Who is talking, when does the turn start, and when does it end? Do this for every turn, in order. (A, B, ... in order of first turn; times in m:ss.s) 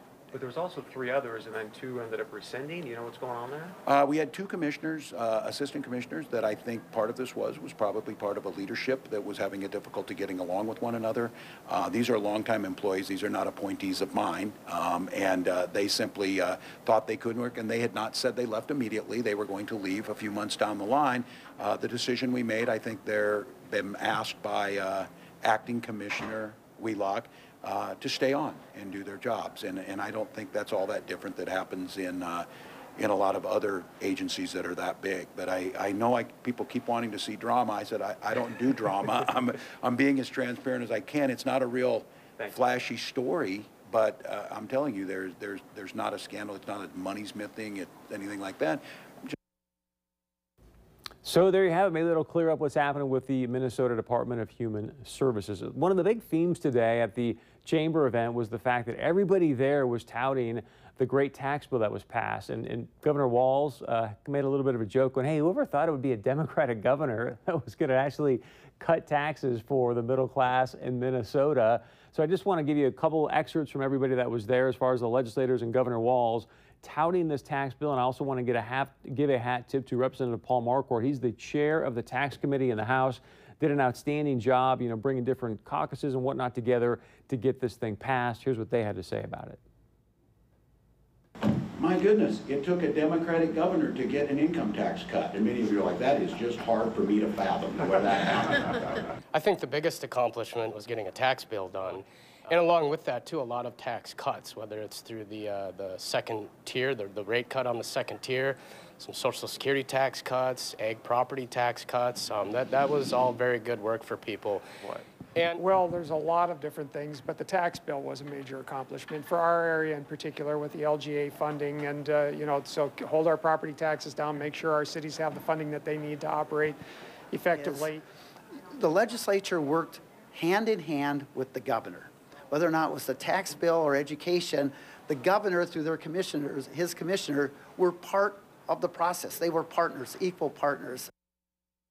0:00.3-0:03.8 A
0:03.8-0:49.3 B
0:51.2-1:29.6 A
1:31.8-1:39.1 B
1:39.3-1:54.6 C
1:55.4-1:55.6 C
1:55.9-1:59.1 D
2:00.1-2:00.4 D
2:02.6-2:03.0 D
2:03.7-2:04.2 D
2:07.5-2:07.9 E
2:08.8-2:21.1 E